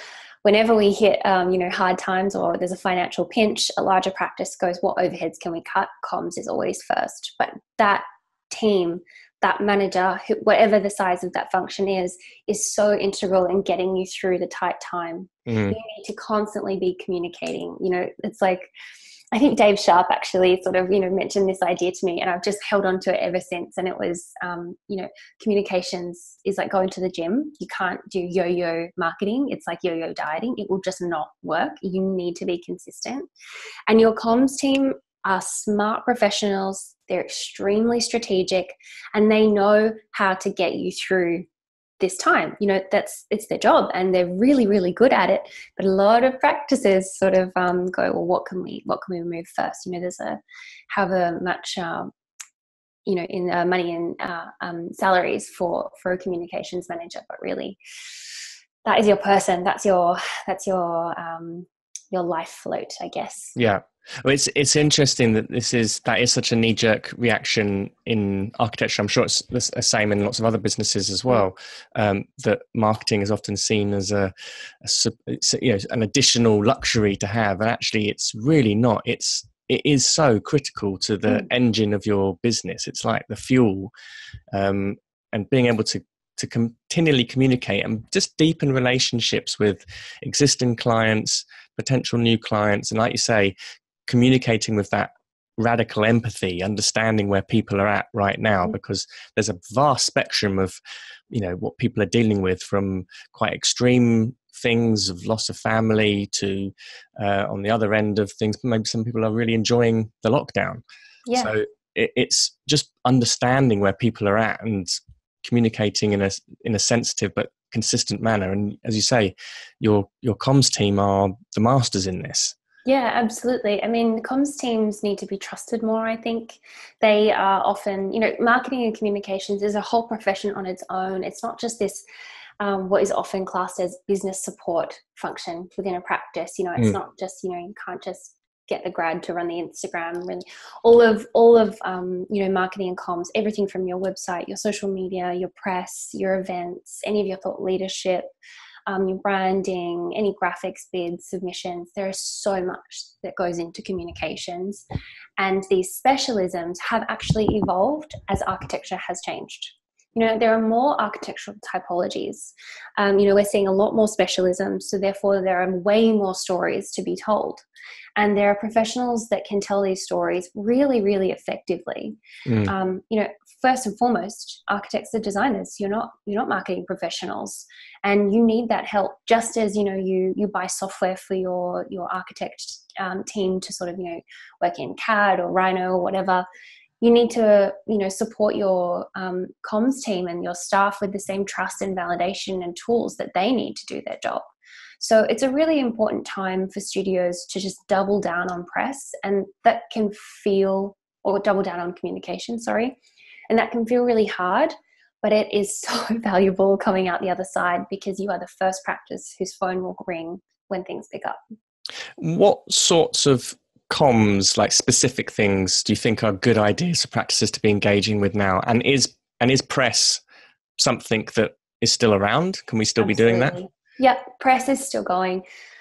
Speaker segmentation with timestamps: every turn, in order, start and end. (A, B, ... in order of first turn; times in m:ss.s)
0:00.4-0:18.7 A
0:15.5-0:15.8 B
0:19.3-0:33.3 A
0:33.9-0:41.4 A
0:42.0-0:52.1 A
0:53.0-0:57.8 A
0:58.8-1:03.5 A
1:03.6-1:23.9 B
1:24.5-1:33.5 B
1:34.1-1:40.8 B
1:41.3-1:50.8 B
1:51.3-1:51.5 A
1:51.4-2:02.5 B
2:02.8-2:12.0 A
2:12.6-2:28.3 A
2:28.9-2:34.8 A
2:35.4-2:47.6 A
2:48.2-3:06.4 A
2:52.4-2:52.7 B
3:07.0-3:14.5 A
3:15.0-3:23.0 A
3:23.5-3:31.4 A
3:32.2-3:40.2 B
3:40.8-3:43.6 B
3:43.0-3:45.4 A